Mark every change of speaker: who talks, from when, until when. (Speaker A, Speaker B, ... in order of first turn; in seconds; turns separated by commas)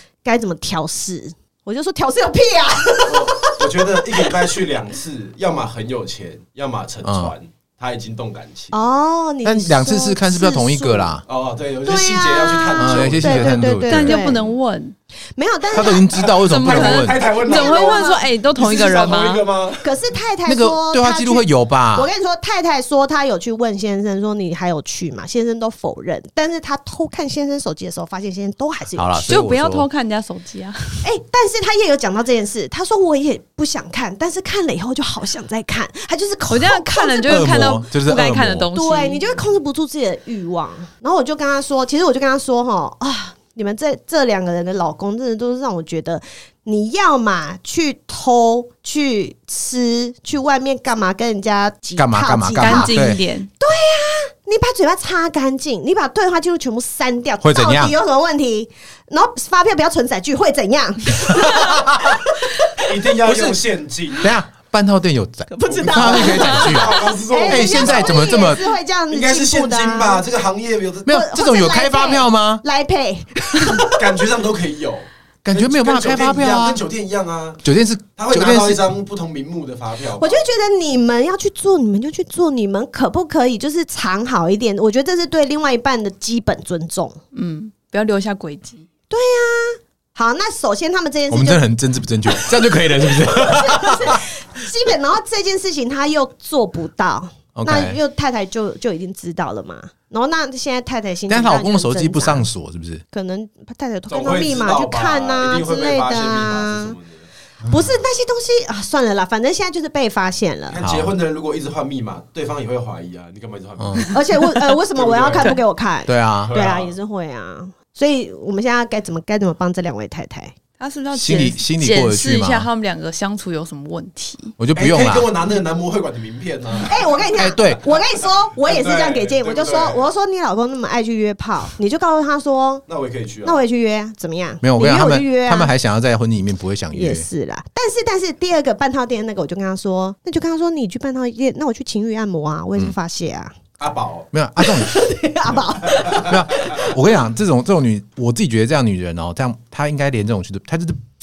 Speaker A: 0.2-3.6, Speaker B: 3.0-8.8, Speaker C: 7.0-7.3, Speaker A: 8.7-11.2, Speaker C: 9.4-11.2, Speaker B: 11.2-13.6, Speaker A: 11.8-14.5, Speaker C: 12.8-14.2, Speaker D: 13.9-14.9, Speaker A: 15.3-16.2, Speaker C: 15.7-17.2, Speaker B: 16.1-19.9, Speaker D: 16.4-19.5, Speaker A: 17.3-18.3, Speaker A: 19.8-29.3, Speaker C: 20.4-22.1, Speaker C: 28.9-29.9, Speaker D: 29.3-31.0, Speaker A: 31.0-37.5, Speaker D: 36.5-39.4, Speaker C: 37.3-38.7, Speaker A: 38.7-53.0, Speaker C: 52.0-53.2, Speaker D: 52.6-53.5, Speaker A: 53.6-62.9, Speaker C: 57.4-57.9, Speaker B: 62.8-64.2, Speaker C: 63.3-63.6, Speaker C: 64.2-68.6, Speaker A: 65.5-70.2, Speaker B: 65.7-68.4, Speaker B: 69.1-71.1, Speaker C: 71.0-72.6, Speaker A: 71.1-74.3, Speaker B: 73.9-77.6, Speaker C: 75.4-76.8, Speaker C: 77.6-78.8, Speaker B: 78.2-80.4, Speaker A: 80.2-87.2, Speaker D: 87.3-88.8, Speaker A: 89.1-91.6, Speaker C: 91.3-94.2, Speaker A: 92.3-102.5, Speaker C: 97.5-98.0, Speaker C: 101.3-103.0, Speaker A: 103.1-107.0, Speaker B: 104.1-107.3, Speaker A: 107.6-110.8, Speaker B: 110.7-114.2, Speaker C: 110.8-111.1, Speaker C: 113.8-114.1, Speaker A: 114.1-120.5, Speaker B: 114.9-115.5, Speaker C: 116.1-116.5, Speaker B: 116.4-116.9, Speaker D: 120.8-124.5, Speaker C: 121.1-122.7, Speaker C: 124.6-125.3, Speaker B: 124.7-127.2, Speaker A: 126.8-132.8, Speaker C: 127.4-127.9, Speaker B: 128.5-130.1, Speaker B: 132.9-133.6, Speaker A: 133.4-135.7, Speaker C: 134.6-137.2, Speaker A: 136.9-143.6, Speaker B: 143.8-144.3, Speaker C: 144.3-144.9, Speaker A: 144.6-146.9, Speaker C: 146.0-151.0